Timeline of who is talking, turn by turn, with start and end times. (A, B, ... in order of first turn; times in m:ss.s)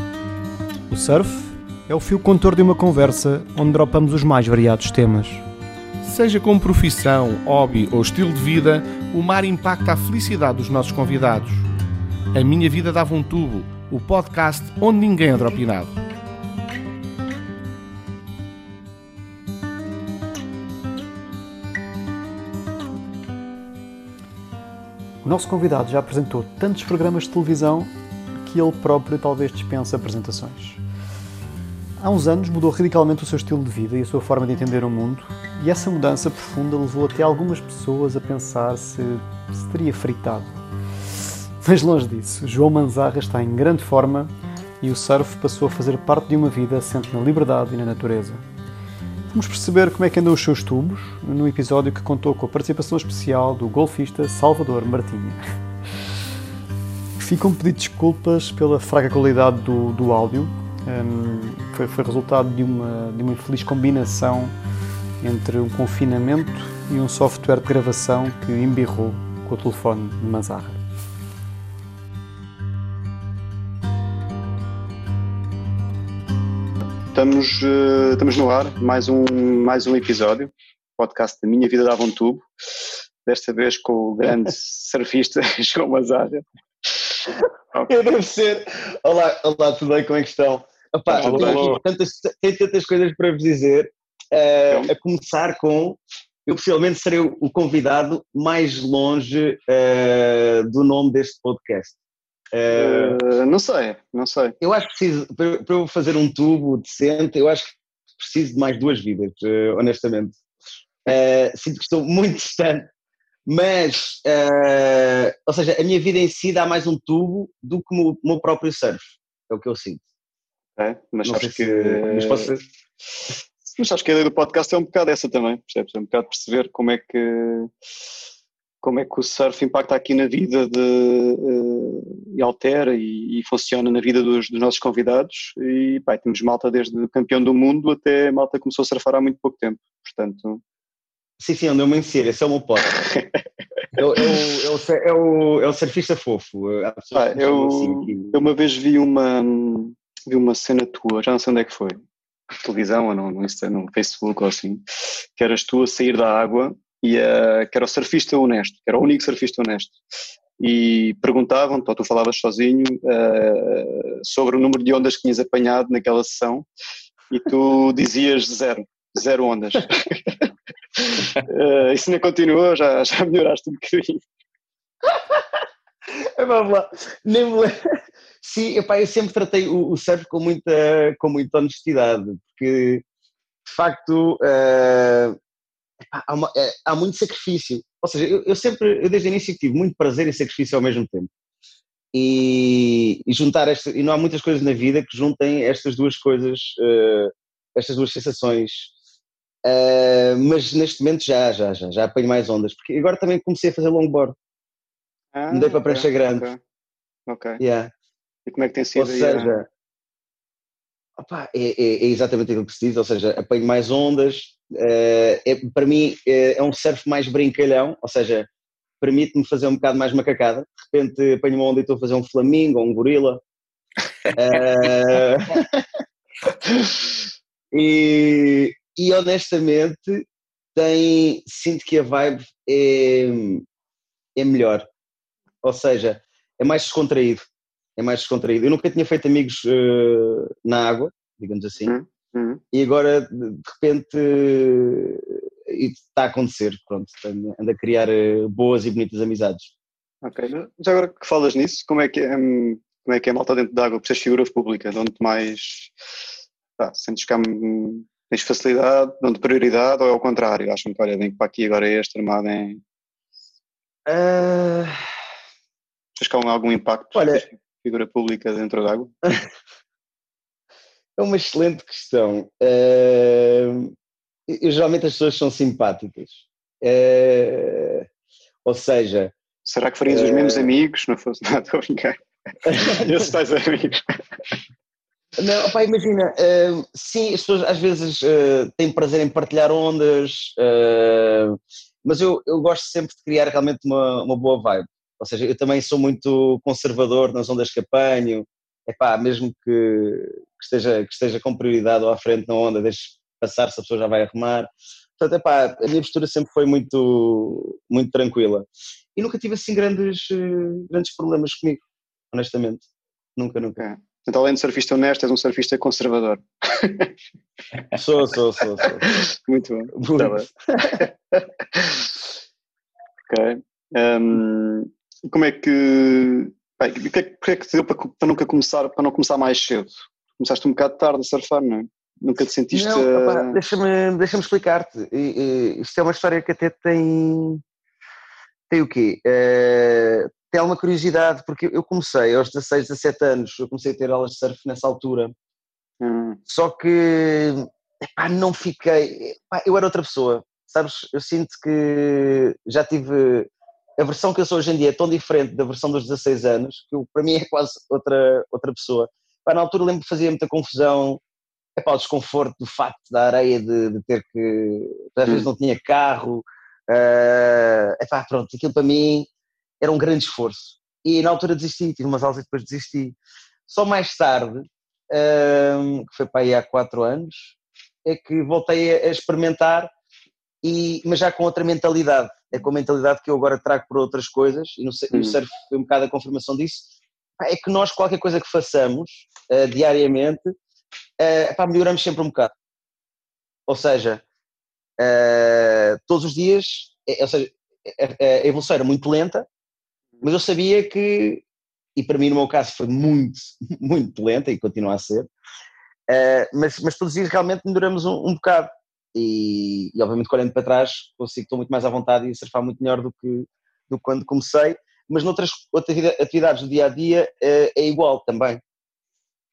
0:00.9-0:05.5 A
0:06.0-0:11.6 B
0:12.3-0:16.0 B
0:25.2-0:30.8 A
0:32.0-0:40.6 A
0:41.6-0:48.4 A
0:49.3-0:55.5 A
0:57.2-1:04.6 A
1:05.2-1:10.8 A
1:17.1-1:22.5 C
1:23.2-1:26.4 C
1:27.9-1:42.0 D
1:31.1-1:31.7 C
1:31.2-1:31.8 B
1:42.5-1:43.2 D
1:42.7-1:44.6 C
1:44.6-1:50.4 D
1:51.0-1:52.9 D
1:53.4-2:00.0 D
2:00.8-2:02.5 C
2:01.2-2:02.6 D
2:03.6-2:07.7 C
2:08.8-2:20.6 C
2:21.4-2:22.9 D
2:23.9-2:28.4 D
2:27.1-2:32.0 C
2:32.5-2:34.8 C
2:35.4-2:40.0 C
2:40.6-2:46.6 C
2:47.3-2:50.5 C
2:51.2-2:54.2 C
2:55.1-2:55.4 D
2:56.2-2:57.8 D
2:58.4-3:03.0 D
3:03.6-3:05.4 D
3:06.0-3:11.3 D
3:12.1-3:18.9 D
3:19.6-3:24.4 D
3:25.3-3:26.6 C
3:25.5-3:26.5 D
3:27.3-3:27.6 C
3:27.6-3:27.9 D
3:28.4-3:29.6 C
3:28.9-3:29.7 D
3:31.2-3:38.5 D
3:39.0-3:43.4 D
3:44.3-3:45.8 D
3:46.5-3:47.0 D
3:47.7-3:53.6 D
3:54.4-3:54.9 D
3:55.6-3:57.4 D
3:58.0-4:01.9 D
4:01.8-4:02.6 C
4:02.7-4:09.7 D
4:10.2-4:15.9 C
4:16.8-4:22.8 C
4:24.0-4:25.0 D
4:26.2-4:29.1 C
4:27.1-4:27.4 D
4:31.2-4:33.9 D
4:34.5-4:38.1 D
4:38.6-4:39.3 D
4:39.6-4:42.2 C
4:40.0-4:40.7 D
4:42.6-4:43.3 D
4:42.7-4:44.0 C
4:45.4-5:11.8 D
5:12.3-5:12.8 D
5:13.4-5:13.8 D
5:13.8-5:17.1 C
5:17.9-5:19.2 D
5:19.3-5:21.1 C
5:20.0-5:21.0 D
5:23.3-5:33.6 C
5:32.7-5:37.6 D
5:38.7-5:45.3 D
5:46.0-5:46.4 C
5:46.5-6:01.2 D
6:01.8-6:09.3 D
6:09.8-6:13.2 D
6:13.7-6:17.5 D
6:18.0-6:19.9 D
6:20.6-6:26.8 D
6:25.1-6:25.4 C
6:27.4-6:30.5 D
6:31.2-6:32.5 D
6:33.7-6:34.2 D
6:35.0-6:39.4 D
6:40.2-6:41.4 D
6:42.0-6:45.3 D
6:46.1-6:58.6 D